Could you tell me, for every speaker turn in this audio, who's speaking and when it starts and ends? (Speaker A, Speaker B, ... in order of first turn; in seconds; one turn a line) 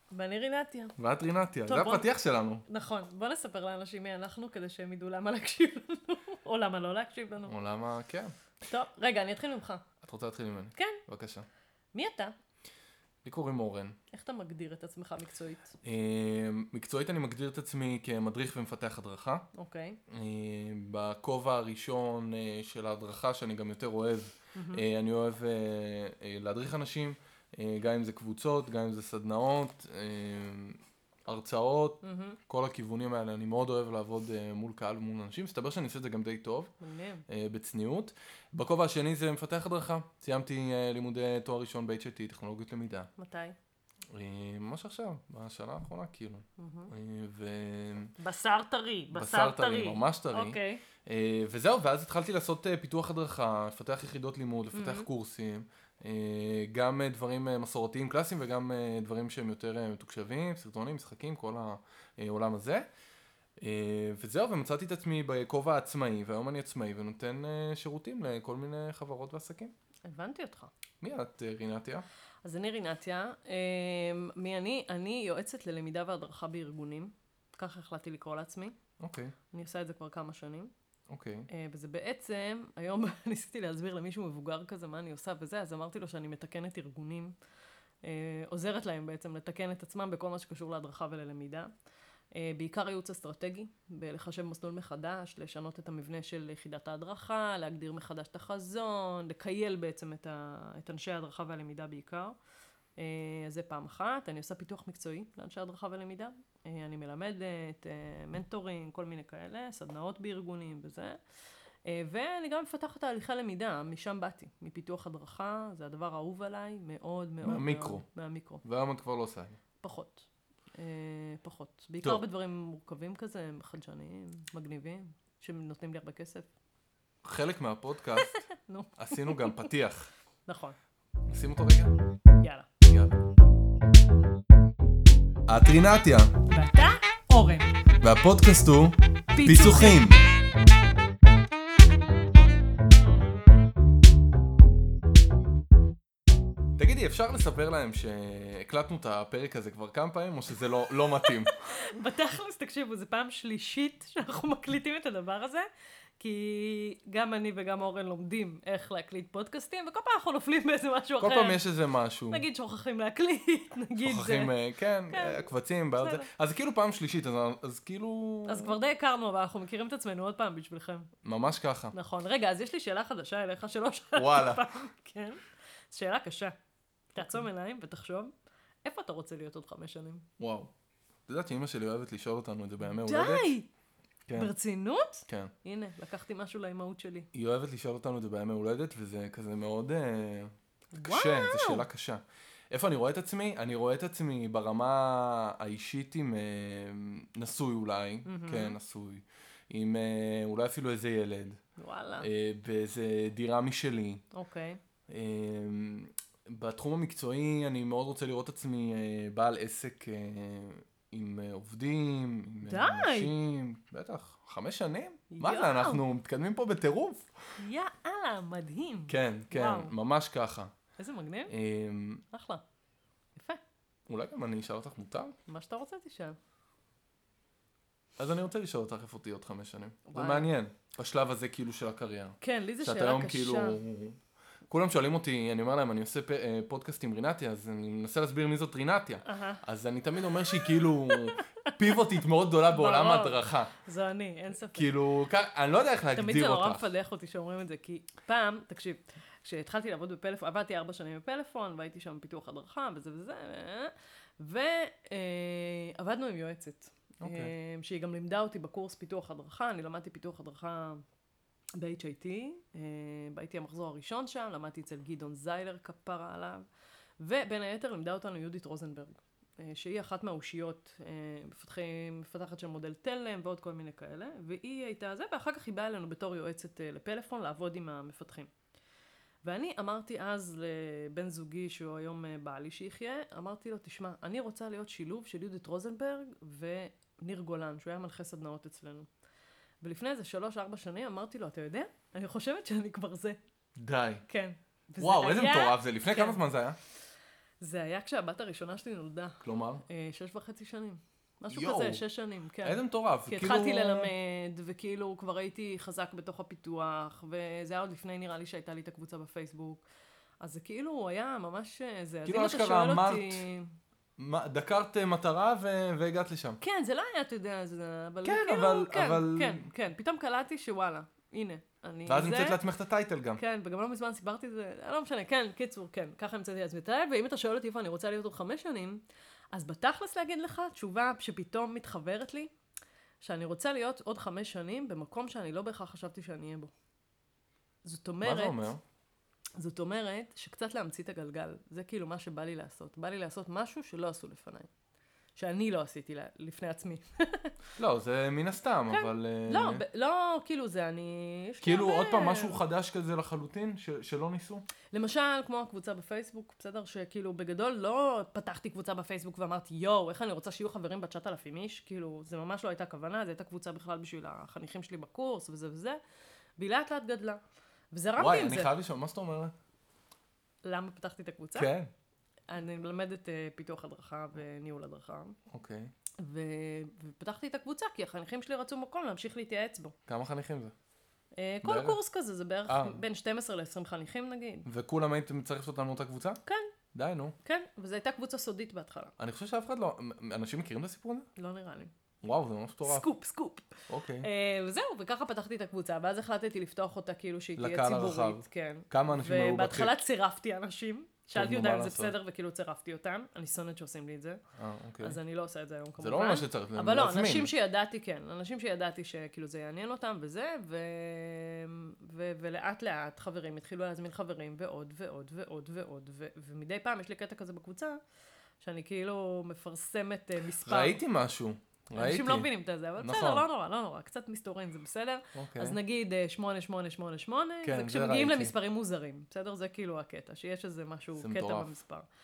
Speaker A: 0.1-0.9
Speaker B: 1.0-2.6
Speaker A: 1.6-2.1
Speaker A: 2.7-7.5
Speaker B: 7.5-8.3
Speaker A: 8.7-9.8
Speaker B: 10.0-11.4
Speaker A: 10.7-11.0
Speaker A: 11.9-12.3
Speaker B: 13.2-14.0
Speaker A: 14.1-15.8
Speaker B: 15.8-19.4
Speaker A: 19.5-20.0
Speaker B: 20.1-36.7
Speaker A: 24.5-24.8
Speaker A: 32.0-32.4
Speaker A: 36.8-37.2
Speaker B: 37.3-43.1
Speaker A: 43.2-43.5
Speaker B: 44.1-48.1
Speaker A: 46.6-46.9
Speaker A: 48.2-50.8
Speaker B: 49.1-62.8
Speaker A: 54.7-55.1
Speaker B: 63.6-69.7
Speaker A: 70.0-70.7
Speaker B: 71.0-72.0
Speaker A: 72.4-78.8
Speaker B: 79.0-79.3
Speaker A: 79.5-80.7
Speaker B: 81.1-81.5
Speaker A: 81.5-87.3
Speaker A: 88.0-91.7
Speaker A: 92.3-102.3
Speaker A: 103.0-111.2
Speaker A: 111.9-118.6
Speaker B: 117.4-118.0
Speaker B: 118.6-119.6
Speaker A: 119.8-126.5
Speaker B: 127.2-128.3
Speaker A: 128.2-129.7
Speaker B: 129.0-130.1
Speaker A: 130.5-130.8
Speaker B: 131.3-131.9
Speaker A: 132.4-132.7
Speaker B: 132.8-133.2
Speaker B: 135.5-136.3
Speaker A: 136.4-137.7
Speaker B: 138.0-140.2
Speaker A: 139.3-140.1
Speaker B: 146.8-151.5
Speaker A: 151.2-155.7
Speaker A: 156.2-161.6
Speaker B: 161.2-162.4
Speaker A: 162.3-164.5
Speaker B: 164.0-168.8
Speaker A: 165.1-166.3
Speaker A: 168.5-171.1
Speaker B: 171.2-171.9
Speaker A: 171.9-175.4
Speaker B: 174.1-174.7
Speaker A: 175.9-176.5
Speaker B: 177.1-177.4
Speaker A: 177.1-178.3
Speaker A: 178.8-180.2
Speaker B: 180.4-180.7
Speaker B: 181.3-183.5
Speaker A: 182.9-183.7
Speaker B: 184.3-184.5
Speaker A: 184.3-187.3
Speaker B: 187.3-201.6
Speaker A: 190.9-191.8
Speaker A: 198.2-198.8
Speaker A: 201.8-202.3
Speaker B: 202.2-204.2
Speaker A: 204.3-204.8
Speaker B: 205.1-217.3
Speaker A: 212.6-213.3
Speaker A: 215.3-216.0
Speaker A: 217.6-219.9
Speaker B: 219.1-220.7
Speaker A: 221.0-221.5
Speaker B: 221.5-222.2
Speaker A: 222.3-222.6
Speaker B: 224.1-225.4
Speaker A: 225.4-226.4
Speaker B: 228.2-234.2
Speaker A: 230.1-230.5
Speaker A: 232.4-233.8
Speaker B: 234.7-243.7
Speaker A: 239.2-239.6
Speaker A: 240.5-241.7
Speaker A: 242.7-244.9
Speaker B: 244.6-246.9
Speaker A: 246.1-261.0
Speaker B: 257.2-257.5
Speaker A: 261.8-266.6
Speaker A: 267.2-278.5
Speaker A: 279.4-289.1
Speaker A: 289.8-293.4
Speaker B: 293.8-294.2
Speaker A: 294.3-296.4
Speaker B: 295.0-296.8
Speaker A: 297.6-309.8
Speaker B: 299.4-299.8
Speaker B: 301.5-302.0
Speaker B: 302.6-304.1
Speaker A: 310.4-313.7
Speaker B: 312.2-313.5
Speaker B: 314.2-316.6
Speaker A: 316.6-322.6
Speaker B: 318.2-319.7
Speaker B: 322.1-323.4
Speaker A: 323.4-329.0
Speaker A: 329.5-332.5
Speaker A: 333.2-336.7
Speaker A: 337.8-338.7
Speaker B: 338.2-338.8
Speaker A: 339.6-344.7
Speaker A: 345.4-347.5
Speaker B: 347.8-349.8
Speaker A: 348.9-352.6
Speaker B: 351.6-354.6
Speaker A: 354.9-366.0
Speaker A: 366.6-367.4
Speaker A: 367.9-368.7
Speaker B: 368.2-369.5
Speaker A: 370.6-371.7
Speaker B: 371.5-371.9
Speaker A: 372.5-375.4
Speaker B: 375.5-375.9
Speaker A: 376.2-379.9
Speaker B: 380.1-380.7
Speaker A: 381.4-384.7
Speaker B: 381.6-382.0
Speaker B: 382.7-383.0
Speaker B: 384.6-386.4
Speaker A: 386.4-386.7
Speaker B: 386.9-387.3
Speaker A: 387.4-389.1
Speaker B: 389.2-391.3
Speaker A: 391.4-391.9
Speaker B: 392.2-393.1
Speaker A: 392.8-404.4
Speaker B: 393.9-394.3
Speaker B: 397.6-400.0
Speaker B: 401.3-402.1
Speaker B: 404.6-405.2
Speaker A: 405.0-418.0
Speaker B: 406.0-407.5
Speaker A: 418.6-421.0
Speaker B: 420.6-423.4
Speaker A: 421.9-432.1
Speaker B: 425.3-425.8
Speaker B: 427.6-428.5
Speaker B: 431.2-431.8